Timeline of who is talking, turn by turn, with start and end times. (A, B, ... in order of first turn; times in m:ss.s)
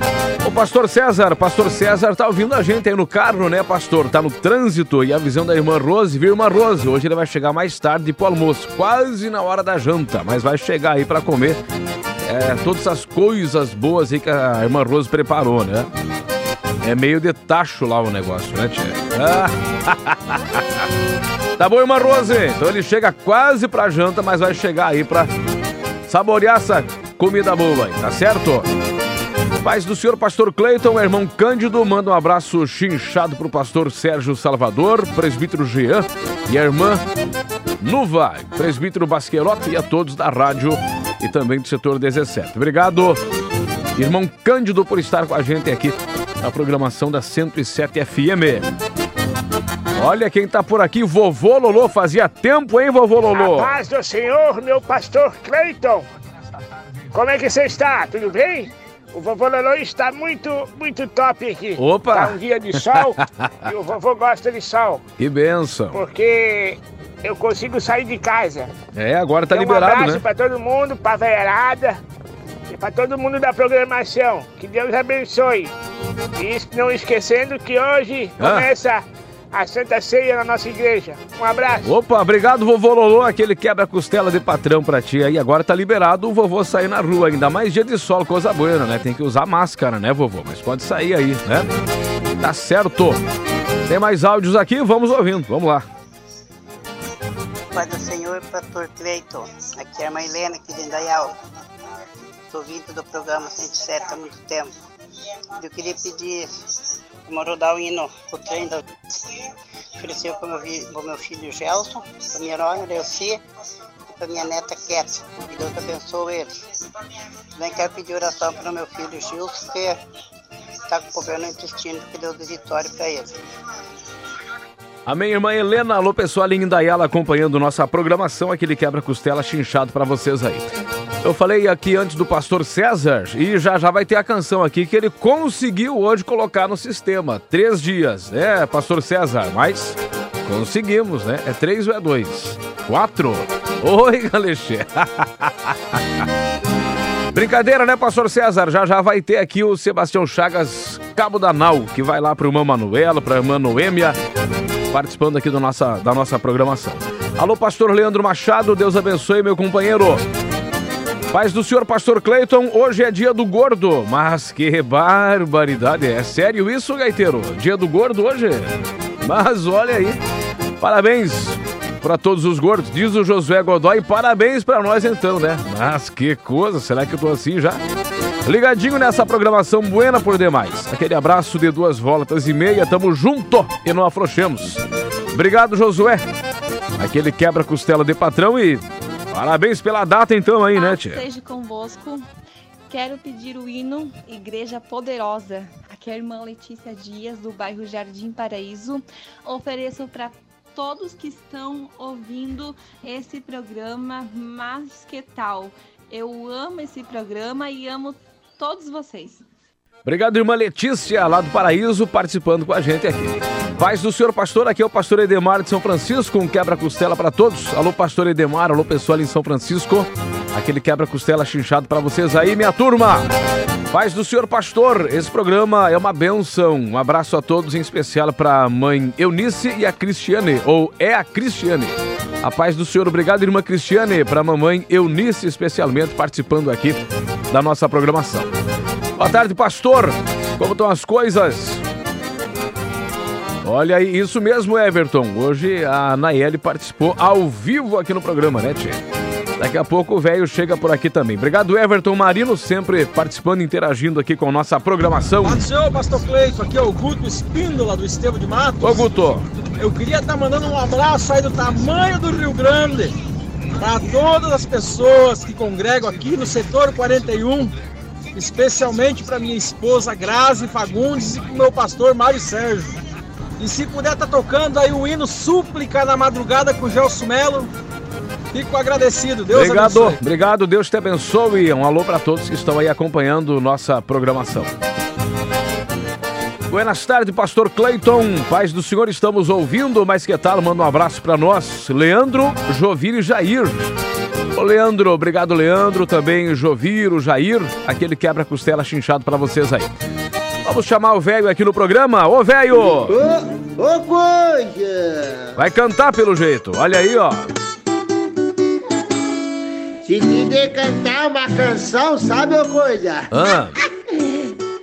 0:00.4-0:11.6 A
0:12.2-0:15.9 A
0:16.8-0:20.8 A
0:21.6-0:25.3 A
0:26.1-0:28.7 A
0:29.6-0:37.0 A
0:37.8-0:43.2 A
0:44.0-0:48.7 A
0:50.0-0:53.8 A
0:53.4-0:56.0 B
0:57.1-1:05.0 B
1:01.8-1:03.5 A
1:05.2-1:06.0 A
1:05.9-1:08.7 B
1:08.9-1:10.2 A
1:09.5-1:12.0 B
1:12.7-1:15.7 B
1:16.4-1:21.9 B
1:18.4-1:18.7 A
1:21.8-1:31.7 A
1:32.4-1:33.2 A
1:33.9-1:35.9 A
1:37.8-1:41.3 C
1:42.5-1:44.7 C
1:45.6-1:46.5 C
1:47.3-1:48.8 C
1:50.0-1:53.4 C
1:54.1-1:56.5 C
1:57.6-2:00.0 C
2:00.9-2:03.4 C
2:05.1-2:26.2 A
2:27.3-2:34.2 A
2:34.9-2:40.2 A
2:41.3-2:50.2 A
2:50.8-2:57.8 A
2:58.4-3:06.2 A
3:07.0-3:11.2 A
3:10.7-3:12.2 D
3:12.9-3:29.4 D
3:30.0-3:43.3 A
3:43.9-3:58.5 A
3:59.2-4:01.8 A
4:03.6-4:09.0 A
4:09.6-4:15.7 A
4:15.4-4:19.1 E
4:18.8-4:19.5 A
4:19.8-4:23.1 E
4:23.8-4:27.7 E
4:28.4-4:33.0 E
4:33.6-4:37.7 E
4:38.5-4:40.2 E
4:39.5-4:44.7 A
4:46.7-4:54.0 A
4:54.6-4:59.9 A
5:00.6-5:03.2 A
5:02.7-5:05.5 F
5:05.6-5:07.5 A
5:10.0-5:13.3 F
5:13.3-5:13.8 A
5:14.2-5:14.5 F